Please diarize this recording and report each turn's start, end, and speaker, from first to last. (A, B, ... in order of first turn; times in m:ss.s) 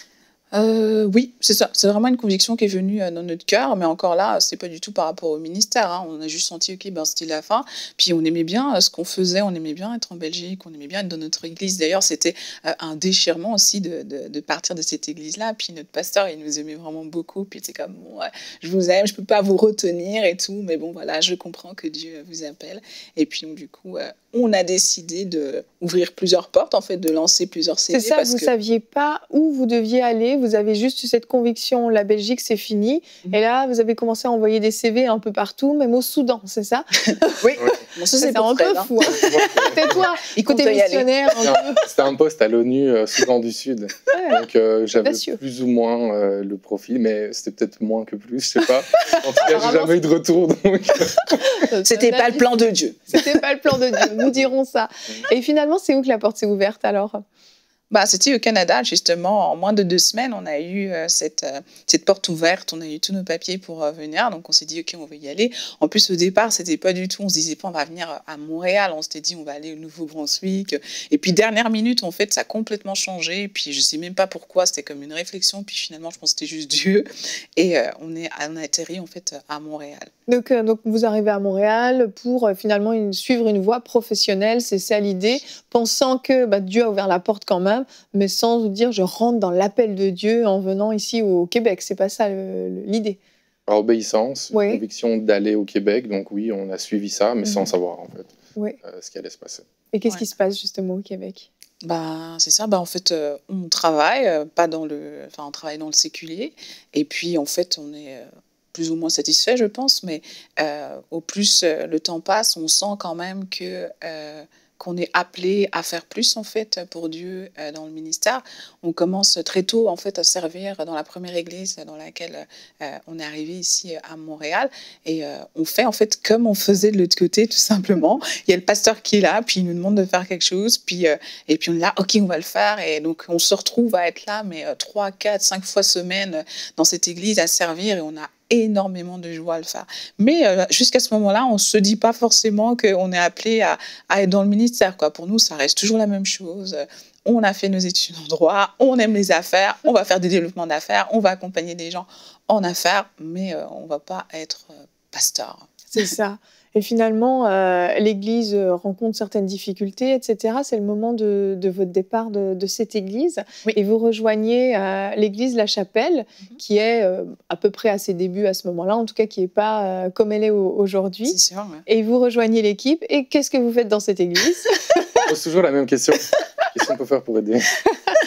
0:00.5-0:28.5 A
0:27.9-0:37.4 B
0:37.4-0:41.1 A
0:38.2-0:41.8 B
0:39.2-0:40.0 C
0:41.4-0:51.5 C
0:44.1-0:44.4 B
0:45.0-0:45.4 B
0:49.4-0:50.0 B
0:51.6-0:52.6 B
0:51.8-0:53.2 A
0:53.1-0:57.2 B
0:57.9-1:20.1 A
1:20.3-1:33.2 B
1:33.7-1:38.3 C
1:34.5-1:34.8 B
1:37.4-1:37.7 B
1:38.8-1:39.6 C
1:39.9-1:41.5 B
1:41.8-2:36.1 A
2:35.9-2:55.2 B
2:51.2-2:51.8 A
2:55.2-2:57.8 C